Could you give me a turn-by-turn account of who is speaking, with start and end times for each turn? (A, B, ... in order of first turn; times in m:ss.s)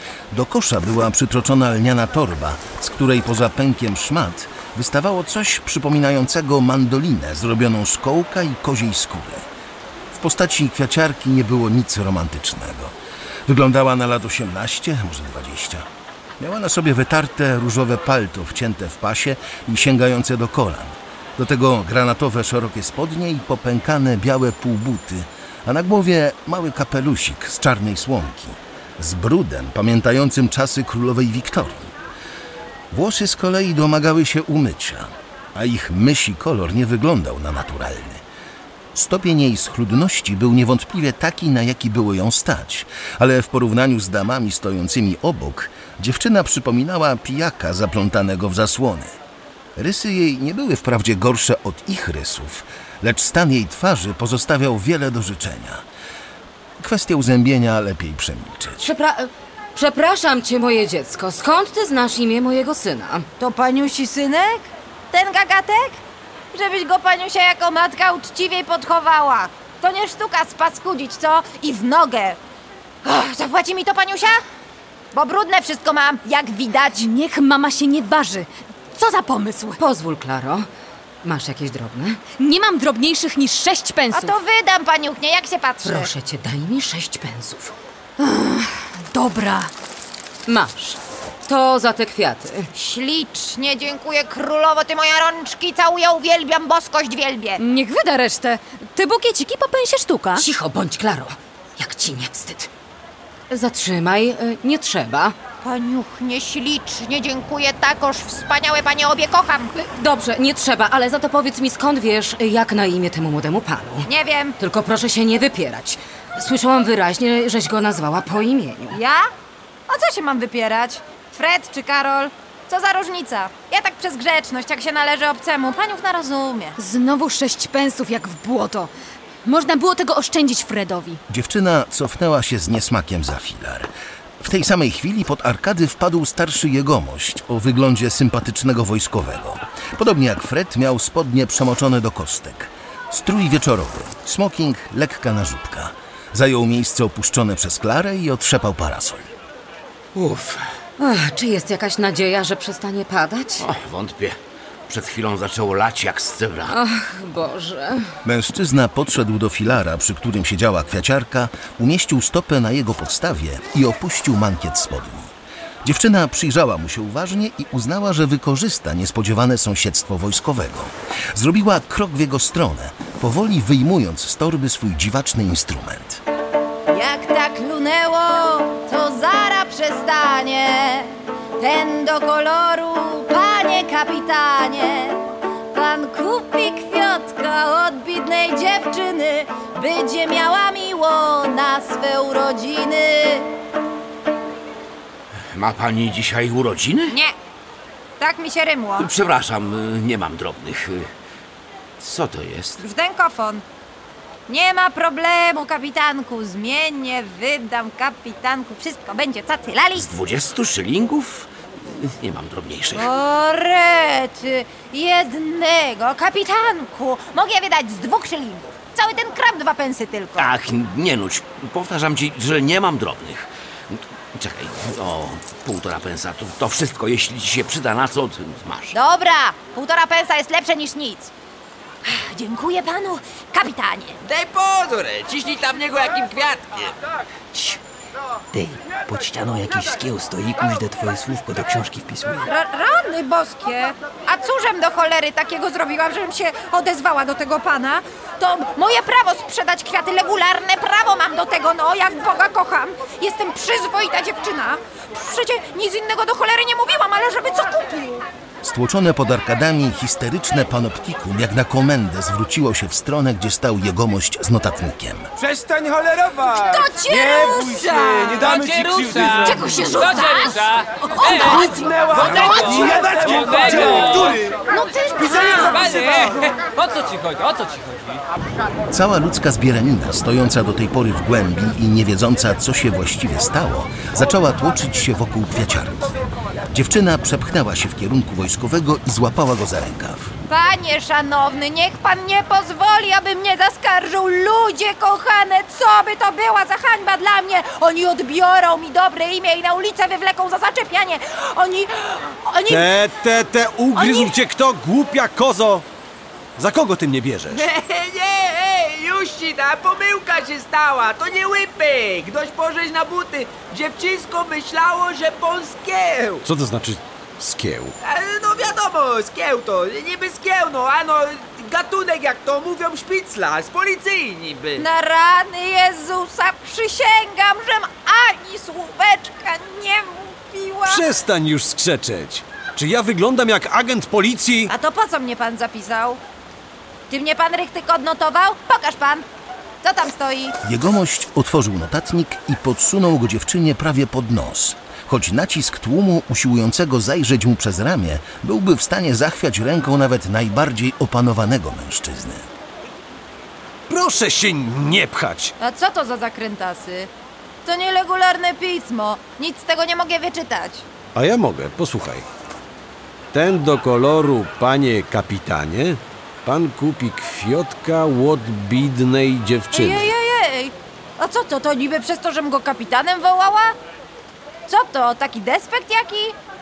0:00.3-0:09.4 A
0:10.1-0:12.9 A
0:13.5-0:15.8 A
0:16.4-0:31.9 A
0:32.9-0:38.2 A
0:38.9-0:49.1 A
0:49.8-0:55.8 A
0:56.8-0:58.8 A
0:58.8-1:03.2 B
1:03.4-1:06.0 C
1:06.5-1:12.4 C
1:13.0-1:14.4 C
1:15.1-1:17.1 C
1:17.0-1:19.8 D
1:19.8-1:20.7 B
1:21.2-1:22.2 B
1:22.3-1:24.3 D
1:24.1-1:26.1 C
1:25.8-1:27.7 B
1:28.2-1:29.7 D
1:30.5-1:32.7 B
1:32.7-1:37.6 C
1:37.6-1:40.4 D
1:40.3-1:42.7 B
1:43.5-1:45.4 B
1:45.6-1:49.7 C
1:49.8-1:54.1 B
1:54.0-1:54.5 C
1:54.6-1:59.0 B
1:58.9-1:59.3 C
1:59.9-2:06.8 C
2:06.8-2:08.9 D
2:09.4-2:11.2 D
2:11.3-2:13.9 A
2:14.4-2:29.3 A
2:30.1-2:30.7 E
2:31.0-2:33.6 B
2:33.6-2:34.4 E
2:34.9-2:36.8 E
2:36.7-2:38.1 B
2:38.2-2:56.2 A
2:56.9-3:13.5 C
3:15.5-3:17.2 E
3:17.1-3:17.3 C
3:18.2-3:19.1 C
3:19.0-3:21.1 E
3:22.0-3:22.8 E
3:22.8-3:23.6 C
3:24.5-3:30.1 C
3:29.9-3:33.1 E
3:32.9-3:40.6 C
3:40.4-3:48.9 E
3:48.9-3:51.3 C
3:52.0-3:54.2 C
3:54.2-3:56.9 F
3:58.5-4:02.4 G
4:02.4-4:18.2 C
4:18.6-4:25.3 A
4:25.4-4:29.9 H
4:26.5-4:36.2 D
4:31.5-4:34.5 H
4:35.2-4:36.3 H
4:38.9-4:46.1 A
4:46.7-4:50.3 A
4:50.5-5:02.9 C
5:02.6-5:05.8 I
5:03.9-5:04.3 C
5:06.6-5:07.6 I
5:07.5-5:16.4 F
5:16.4-5:17.9 I
5:18.0-5:24.8 F
5:24.8-5:31.1 C
5:30.8-5:34.7 I
5:34.7-5:36.2 C
5:37.1-5:39.2 C
5:39.8-5:40.5 C
5:40.6-5:52.4 A
5:53.9-5:55.5 I
5:55.6-5:57.1 C
5:57.6-6:00.8 C
6:01.1-6:02.2 I
6:03.3-6:10.1 I
6:09.7-6:13.7 C
6:14.7-6:16.4 C